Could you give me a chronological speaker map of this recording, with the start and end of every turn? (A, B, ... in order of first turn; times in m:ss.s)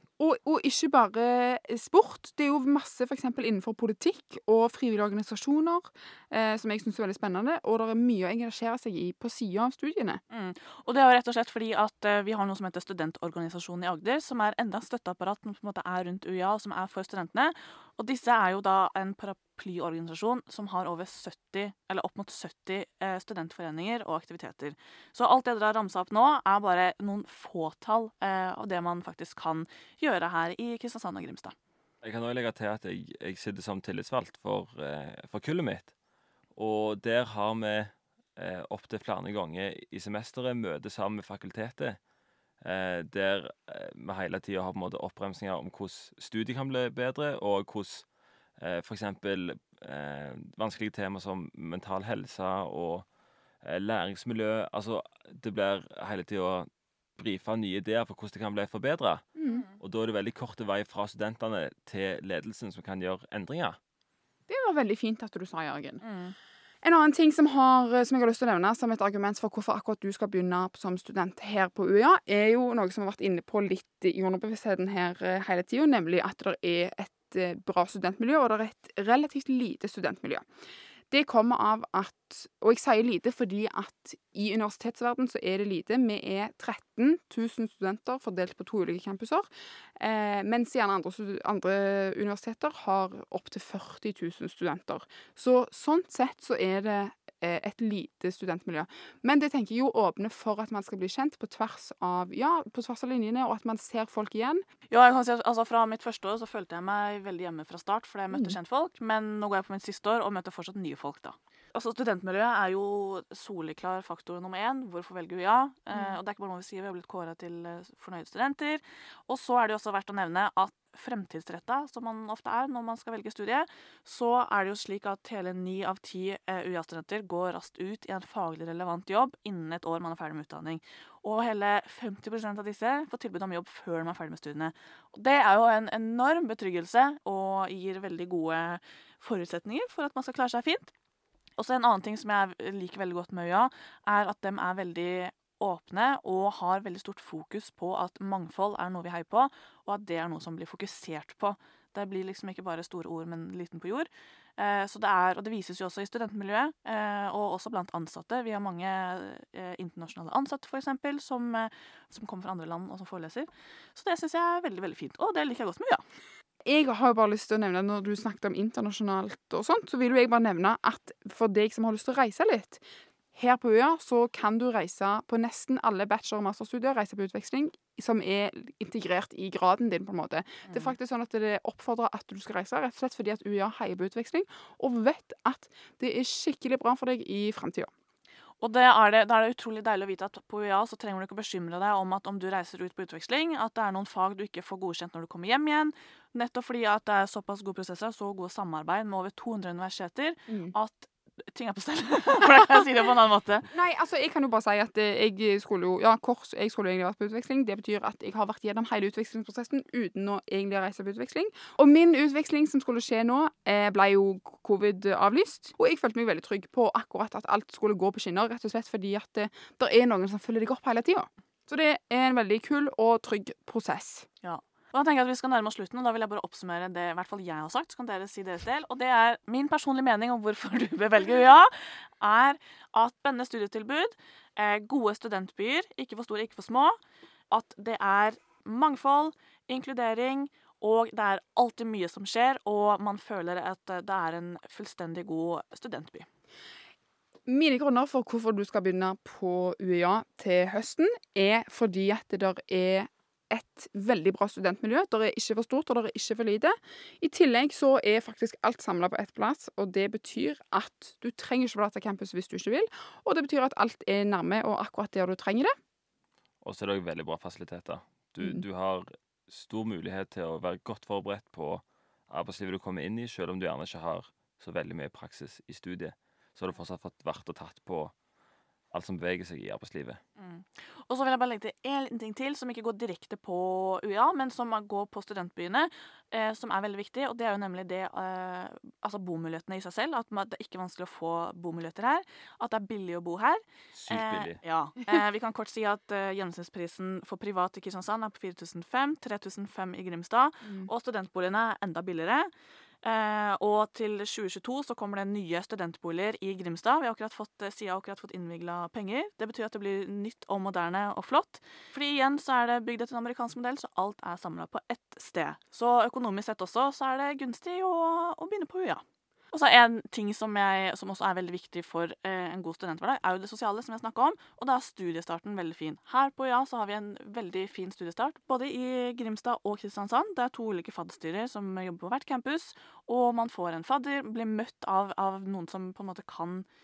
0:00.2-0:10.2 A
0:10.3-0:31.6 B
0:32.0-0:35.9 C
0:36.6-0:42.0 C
0:42.6-0:48.1 C
0:48.6-0:53.1 C
0:53.6-0:59.2 C
0:59.4-0:59.6 A
0:59.5-0:59.8 B
0:59.8-1:03.8 C
1:04.5-1:06.0 A
1:06.0-1:06.4 B
1:06.8-1:20.4 A
1:21.1-1:44.6 A
1:44.9-2:20.9 B
1:48.3-1:48.6 A
2:21.6-2:46.0 B
2:46.7-2:52.8 A
2:53.3-3:07.9 A
3:00.7-3:00.9 B
3:08.6-3:23.7 B
3:20.5-3:20.7 A
3:23.7-3:44.3 A
3:44.4-3:57.0 B
3:57.5-4:06.3 B
4:07.5-4:25.7 A
4:26.6-4:38.1 C
4:38.9-4:40.2 C
4:40.4-5:02.5 B
4:53.9-4:54.6 C
5:00.6-5:00.9 A
5:03.0-5:36.7 B